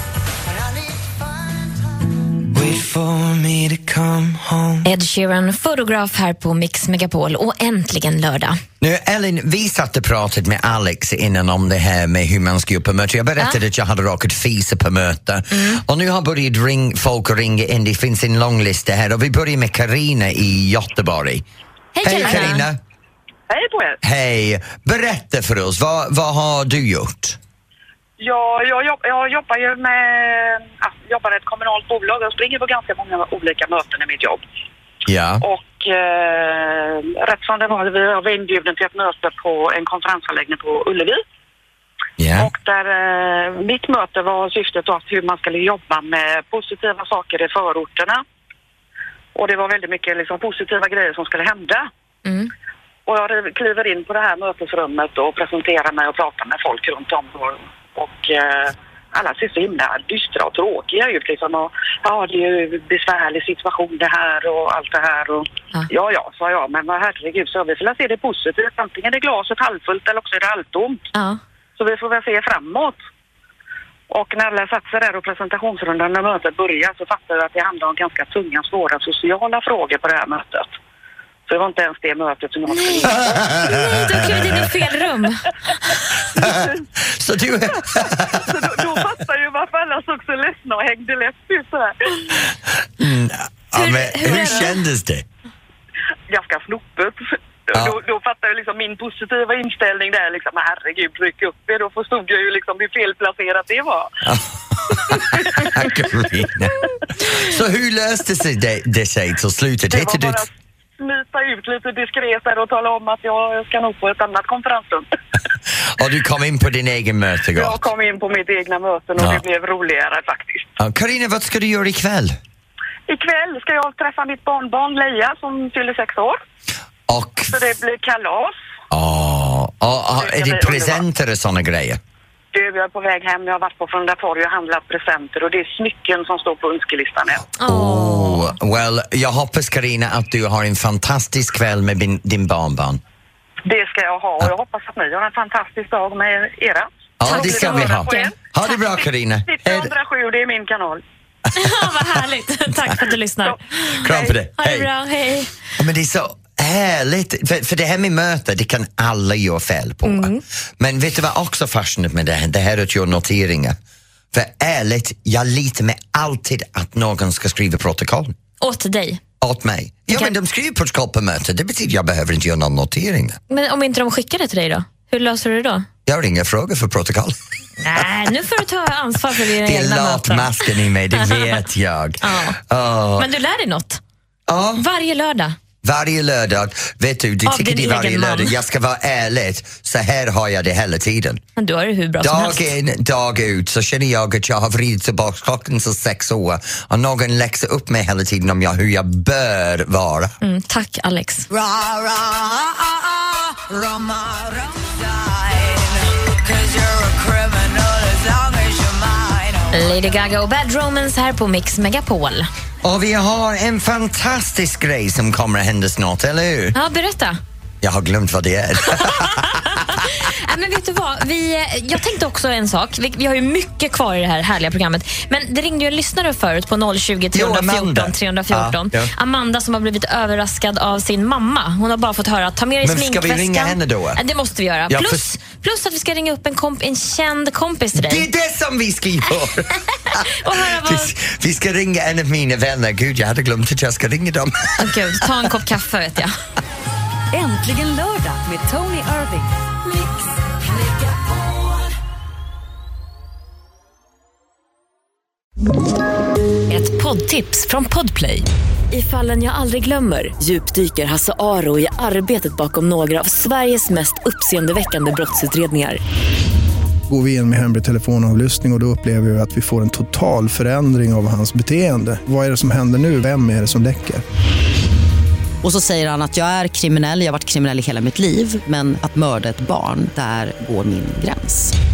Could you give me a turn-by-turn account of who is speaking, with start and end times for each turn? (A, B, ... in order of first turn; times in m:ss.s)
0:00.5-0:04.8 A
0:04.8-0:08.6 B
0:08.8-0:21.4 C
0:15.5-0:15.8 B
0:22.0-0:22.7 B
0:22.0-0:22.8 C
0:22.2-0:22.5 D
0:23.5-0:24.0 D
0:24.0-0:27.4 C
0:28.2-0:34.4 D
0:35.1-0:35.4 C
0:35.4-0:41.2 D
0:42.2-0:42.5 C
0:42.4-0:48.2 D
0:49.4-0:51.9 D
0:52.2-0:52.5 B
0:53.1-1:11.0 D
1:11.1-1:11.4 B
1:11.8-1:13.0 D
1:14.1-1:20.7 D
1:21.5-1:23.6 D
1:22.7-1:26.0 B
1:23.0-1:24.7 C
1:26.4-1:28.7 C
1:26.4-1:26.8 D
1:27.9-1:32.3 D
1:33.0-1:35.2 C
1:33.8-1:34.8 B
1:36.3-1:44.1 D
1:44.2-1:50.4 C
1:45.1-1:45.7 D
1:49.9-1:55.1 D
1:55.7-1:57.9 C
1:57.6-2:00.8 D
1:59.2-1:59.4 C
2:00.8-2:02.4 C
2:03.1-2:06.4 D
2:07.1-2:07.6 C
2:07.4-2:08.6 D
2:08.9-2:12.0 C
2:10.1-2:11.0 D
2:12.5-2:17.5 D
2:17.6-2:18.6 B
2:17.6-2:23.0 C
2:23.6-2:31.0 D
2:27.2-2:29.9 C
2:27.3-2:28.3 B
2:31.6-2:35.5 B
2:33.4-2:34.3 D
2:34.0-2:34.9 C
2:35.8-2:43.8 C
2:40.0-2:40.4 B
2:44.3-2:48.3 C
2:48.6-2:49.2 B
2:49.4-2:53.4 C
2:53.5-2:55.9 B
2:56.1-2:57.4 C
2:57.8-3:01.6 B
2:59.6-3:03.3 C
3:02.2-3:02.6 B
3:03.2-3:04.0 B
3:04.5-3:04.8 C
3:04.8-3:05.6 B
3:05.8-3:11.4 C
3:07.5-3:08.6 B
3:11.6-3:12.7 B
3:12.2-3:20.4 C
3:20.4-3:21.5 B
3:21.5-3:30.0 A
3:29.7-3:32.5 B
3:32.8-3:36.8 C
3:36.7-3:37.4 B
3:37.8-3:39.8 C
3:38.9-3:58.3 B
3:47.3-3:49.1 C
3:52.8-3:54.2 C
3:54.9-3:55.3 C
3:58.0-4:04.9 C
4:00.1-4:01.1 B
4:04.8-4:06.3 B
4:07.3-4:09.5 E
4:09.9-4:11.9 A
4:16.7-4:26.0 B
4:27.1-4:34.2 F
4:35.6-4:41.8 G